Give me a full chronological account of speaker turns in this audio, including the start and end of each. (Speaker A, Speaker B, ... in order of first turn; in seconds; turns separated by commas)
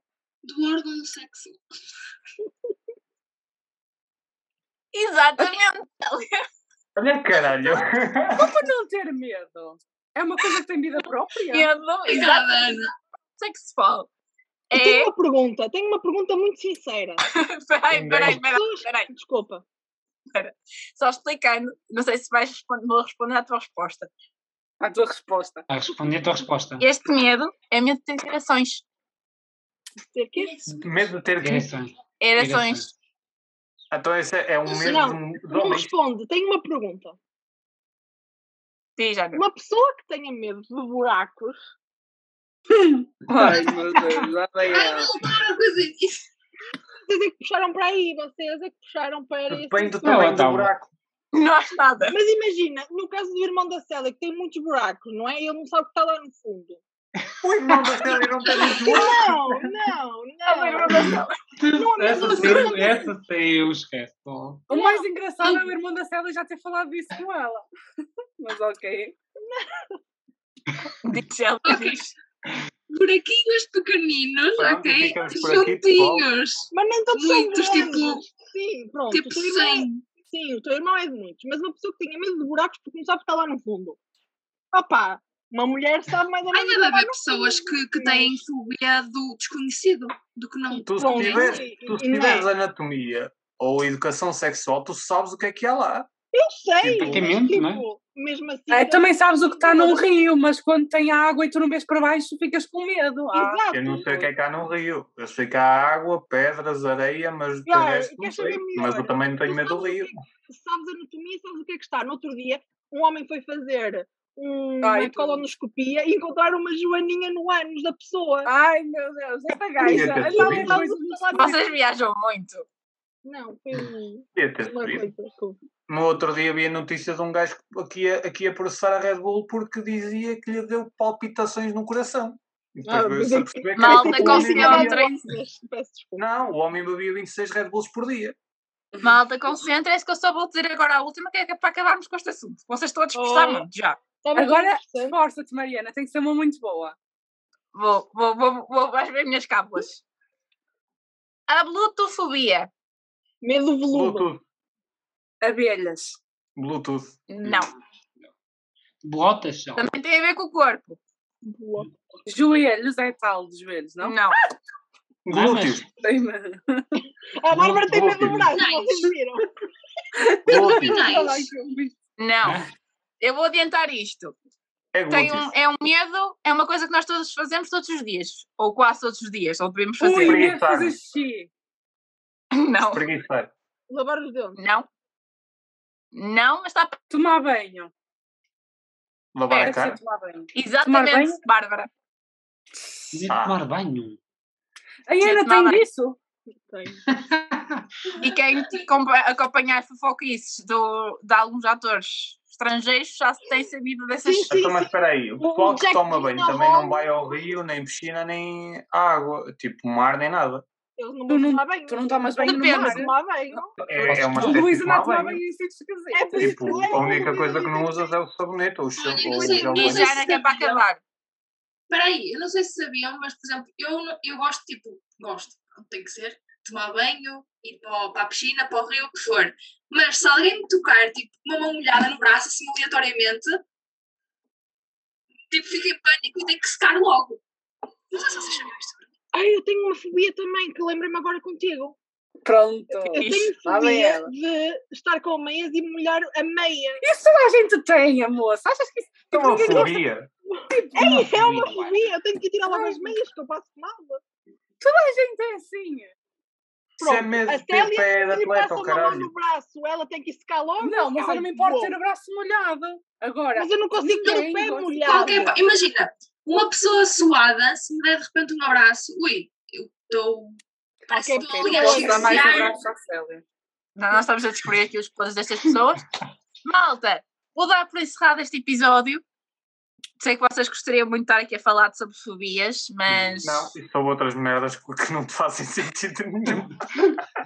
Speaker A: 0.4-1.6, Speaker B: 4.9-6.4, Speaker C: 7.0-8.6, Speaker D: 8.3-11.7, Speaker B: 11.5-12.5, Speaker A: 12.1-12.9, Speaker B: 13.4-14.1, Speaker B: 14.7-15.1, Speaker E: 14.7-17.2, Speaker B: 17.2-19.1, Speaker C: 17.9-18.4, Speaker E: 18.3-19.6, Speaker B: 20.4-24.1, Speaker D: 24.8-25.7, Speaker F: 25.7-26.9, Speaker B: 26.8-28.8, Speaker E: 30.1-30.6, Speaker A: 30.4-31.2, Speaker C: 30.7-31.7, Speaker F: 31.4-32.9, Speaker B: 32.2-32.9, Speaker C: 33.9-35.9, Speaker E: 34.7-37.2, Speaker B: 39.0-39.4, Speaker E: 39.4-41.6, Speaker D: 42.7-45.1, Speaker F: 43.3-43.7, Speaker A: 43.5-44.0, Speaker A: 44.6-46.2, Speaker E: 47.1-50.4, Speaker C: 49.5-50.9, Speaker F: 50.0-50.7, Speaker B: 51.3-52.2, Speaker E: 52.1-56.8, Speaker C: 57.4-59.4, Speaker E: 58.5-61.1, Speaker B: 60.4-61.4, Speaker F: 61.6-64.7, Speaker E: 61.7-63.1, Speaker D: 64.7-67.7, Speaker E: 64.7-65.1, Speaker A: 65.4-65.7, Speaker D: 68.4-69.1, Speaker E: 69.4-70.0, Speaker B: 71.1-72.1, Speaker A: 71.6-72.0, Speaker A: 72.9-78.3, Speaker C: 74.6-76.2, Speaker E: 76.7-84.0, Speaker A: 79.1-80.1, Speaker E: 84.7-88.4, Speaker A: 86.5-91.7, Speaker E: 90.7-92.5, Speaker C: 90.9-96.1, Speaker E: 96.3-100.1, Speaker C: 96.8-97.4, Speaker F: 97.0-97.9, Speaker D: 98.7-103.6, Speaker E: 103.3-104.3, Speaker C: 103.7-110.1, Speaker E: 107.7-118.5, Speaker D: 114.8-115.5, Speaker D: 118.4-121.6, Speaker E: 119.8-121.6, Speaker C: 119.8-120.8, Speaker B: 121.3-122.7, Speaker E: 123.2-125.6, Speaker C: 124.4-125.1, Speaker C: 125.9-135.3, Speaker E: 132.9-136.2, Speaker B: 133.8-135.1, Speaker C: 136.2-138.4, Speaker B: 139.0-144.0, Speaker E: 143.1-143.7, Speaker E: 144.2-145.1, Speaker D: 144.3-146.9, Speaker B: 147.7-150.0, Speaker B: 151.5-152.7, Speaker E: 153.4-154.3, Speaker C: 153.9-154.4, Speaker D: 155.4-156.2, Speaker C: 156.6-157.2, Speaker B: 157.3-157.7, Speaker F: 157.4-158.3, Speaker F: 159.0-159.9, Speaker B: 159.8-161.0, Speaker E: 161.4-161.9, Speaker D: 162.2-164.2, Speaker B: 164.0-164.4, Speaker C: 165.2-165.9, Speaker F: 165.3-165.9, Speaker D: 166.0-166.9, Speaker E: 167.4-169.5, Speaker F: 167.5-168.5, Speaker A: 168.4-169.2, Speaker D: 170.2-171.9, Speaker E: 170.4-171.5, Speaker C: 170.5-171.0, Speaker A: 170.5-171.4, Speaker B: 172.2-172.6, Speaker F: 172.4-172.7, Speaker B: 173.2-174.3, Speaker C: 174.9-175.5, Speaker B: 175.1-180.4, Speaker D: 180.0-181.5, Speaker C: 180.2-181.0, Speaker B: 182.5-183.0, Speaker C: 182.9-183.5, Speaker E: 183.9-184.6, Speaker B: 184.6-184.9, Speaker B: 186.1-187.0, Speaker D: 187.1-187.9, Speaker C: 189.3-190.0, Speaker B: 189.5-189.8, Speaker D: 189.6-191.4, Speaker B: 190.5-191.9, Speaker D: 192.8-193.1, Speaker F: 193.1-194.2, Speaker C: 193.3-193.6, Speaker D: 195.1-196.2, Speaker B: 195.2-195.9, Speaker E: 196.6-197.1, Speaker F: 197.1-197.9, Speaker B: 198.2-204.5, Speaker E: 204.2-207.1, Speaker C: 204.5-210.6, Speaker E: 211.0-213.7, Speaker D: 211.3-213.1, Speaker B: 212.4-213.0, Speaker C: 213.8-215.4, Speaker F: 214.0-214.7, Speaker D: 214.3-216.9, Speaker E: 216.1-218.1, Speaker C: 216.4-220.1, Speaker A: 219.0-220.8, Speaker E: 219.2-219.9, Speaker B: 219.8-221.0, Speaker A: 221.9-233.6, Speaker A: 235.5-237.4, Speaker A: 238.1-239.0, Speaker E: 239.3-241.9, Speaker D: 242.4-244.3, Speaker E: 242.9-247.0, Speaker B: 243.2-243.6, Speaker D: 247.0-249.9, Speaker C: 249.3-250.3, Speaker E: 249.7-249.9, Speaker E: 250.5-254.2, Speaker D: 250.7-251.1, Speaker F: 251.0-252.1, Speaker D: 252.6-253.2, Speaker D: 254.8-256.1, Speaker C: 257.0-259.3, Speaker E: 257.0-261.9, Speaker D: 260.8-265.5, Speaker E: 263.6-265.6, Speaker A: 265.1-272.8, Speaker E: 271.1-272.7, Speaker D: 271.1-273.4, Speaker B: 274.0-276.0, Speaker B: 276.6-279.2, Speaker B: 280.2-283.7, Speaker F: 283.1-283.4, Speaker C: 283.4-287.1